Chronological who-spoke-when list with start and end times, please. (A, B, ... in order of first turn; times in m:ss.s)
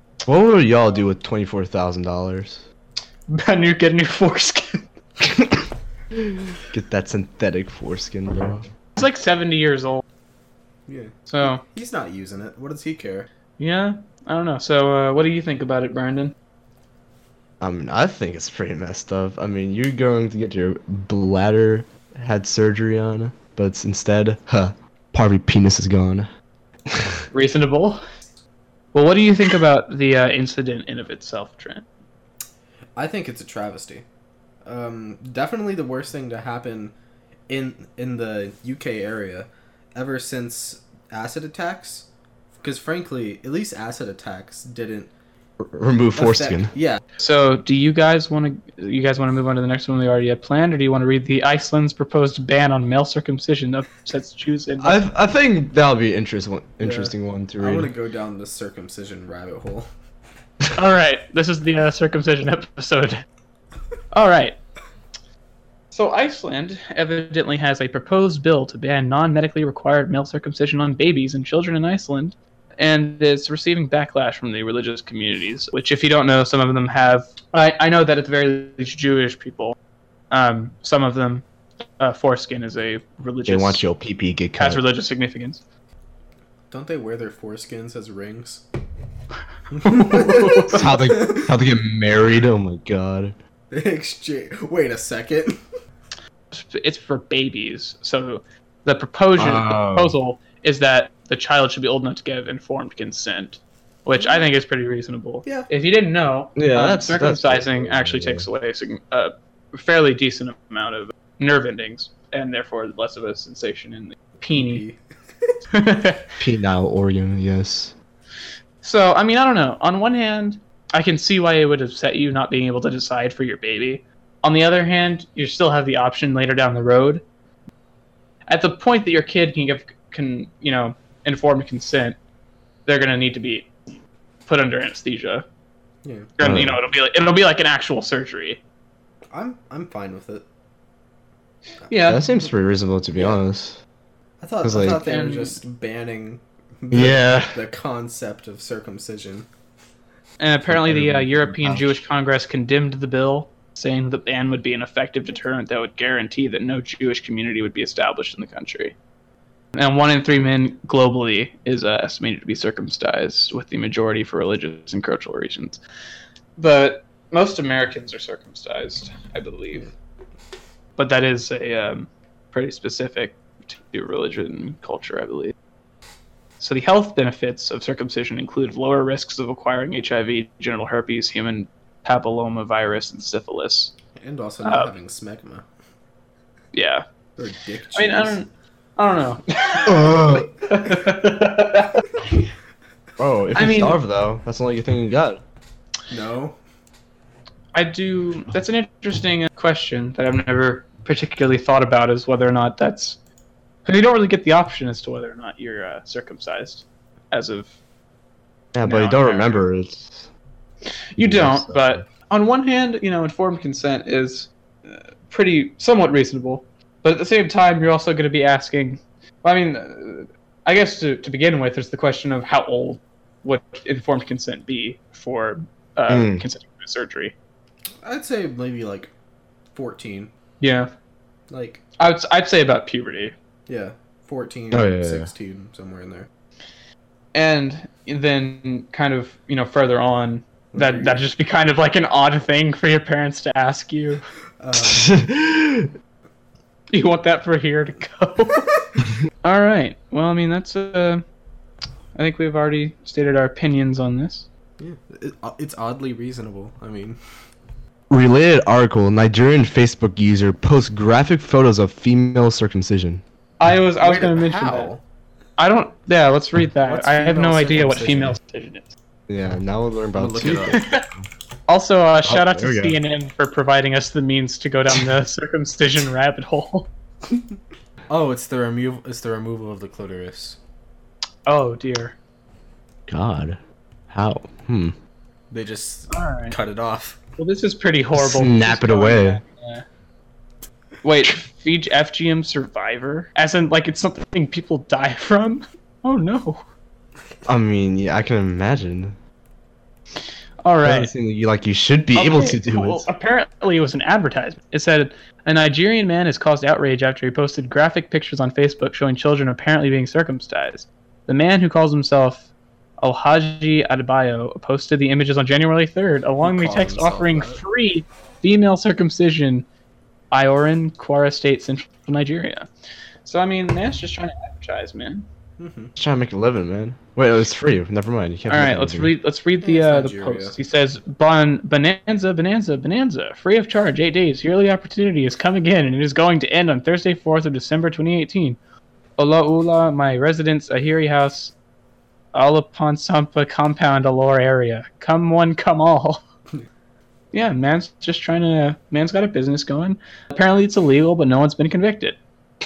0:00.2-0:02.6 A
0:03.3-0:04.8 B
0:06.6-0:08.7 A
0:09.0-0:10.0 B
0:10.9-0:13.3 C
0:11.3-0:11.6 B
0:13.6-0:16.3 B
0:17.6-0:26.3 A
0:26.9-0:27.2 A
0:27.3-0:28.0 B
0:28.9-0:31.9 B
0:33.0-0:34.0 C
0:34.6-0:36.9 C
0:37.5-0:42.1 C
0:42.6-0:45.1 C
0:45.6-0:46.7 A
0:46.2-0:47.0 C
0:47.2-0:55.0 B
0:54.8-0:57.9 A
0:56.8-0:59.9 C
1:00.8-1:03.2 B
1:04.1-1:04.6 B
1:05.9-1:19.8 B
1:20.3-1:21.4 B
1:22.0-1:23.8 B
1:23.5-1:24.8 A
1:24.6-1:25.6 B
1:26.7-1:28.6 C
1:29.7-1:31.5 C
1:29.8-1:30.8 B
1:30.7-1:33.4 A
1:33.7-1:35.6 C
1:36.5-1:54.8 B
1:39.4-1:40.2 A
1:46.6-1:48.5 A
1:54.5-1:55.5 C
1:55.7-1:56.3 B
1:56.4-1:57.9 A
1:58.8-2:07.2 B
2:08.5-2:12.2 B
2:12.9-2:13.7 B
2:14.5-2:15.4 B
2:16.0-2:16.3 C
2:16.4-2:18.6 B
2:16.4-2:16.8 A
2:19.3-2:20.5 C
2:21.9-2:22.2 B
2:22.0-2:23.8 A
2:24.4-2:29.5 C
2:24.6-2:25.0 A
2:25.0-2:25.6 B
2:26.9-2:27.6 A
2:30.4-2:39.0 B
2:30.7-2:32.0 A
2:39.8-2:45.8 B
2:46.6-2:49.9 B
2:51.0-2:55.5 B
2:56.6-3:03.9 B
3:04.2-3:05.6 C
3:04.6-3:04.9 B
3:06.7-3:07.0 B
3:07.4-3:08.4 C
3:08.0-3:12.5 B
3:09.9-3:10.5 A
3:13.2-3:15.4 A
3:13.6-3:14.0 B
3:16.1-3:16.6 C
3:17.7-3:23.2 B
3:23.9-3:27.8 B
3:28.7-3:30.3 A
3:28.8-3:29.6 B
3:31.2-3:47.3 B
3:31.2-3:32.0 A
3:46.1-3:46.4 A
3:48.0-3:49.1 C
3:49.8-3:50.3 C
3:50.6-3:50.9 B
3:51.5-3:51.8 C
3:52.0-3:53.3 B
3:53.7-3:56.3 C
3:54.7-3:55.3 A
3:57.3-4:04.2 B
4:00.7-4:01.2 C
4:04.6-4:05.2 C
4:04.8-4:05.9 A
4:06.9-4:08.7 B
4:09.4-4:11.2 B
4:12.2-4:14.5 B
4:14.8-4:17.2 C
4:18.1-4:23.2 A
4:23.6-4:24.9 B
4:24.0-4:25.0 C
4:25.6-4:28.9 B
4:26.8-4:28.4 C
4:29.3-4:31.3 A
4:30.2-4:30.8 C
4:30.7-4:31.1 B
4:31.7-4:36.9 B
4:32.2-4:33.0 A
4:38.1-4:40.6 C
4:41.5-4:42.2 B
4:43.1-4:43.6 A
4:44.1-4:45.0 A
4:45.5-4:47.2 C
4:46.1-4:46.6 B
4:47.4-4:49.8 B
4:48.2-4:49.4 A
4:51.0-4:56.6 B
4:57.5-4:59.2 A
5:00.6-5:01.1 B
5:00.8-5:03.1 A
5:02.2-5:12.5 B
5:13.0-5:19.7 B
5:16.4-5:17.6 C
5:20.3-5:22.7 B
5:23.2-5:25.3 B
5:25.6-5:25.9 C
5:26.0-5:29.1 A
5:28.5-5:38.6 B
5:29.6-5:30.6 C
5:39.2-5:41.5 B
5:42.3-5:46.2 B
5:47.3-5:52.2 B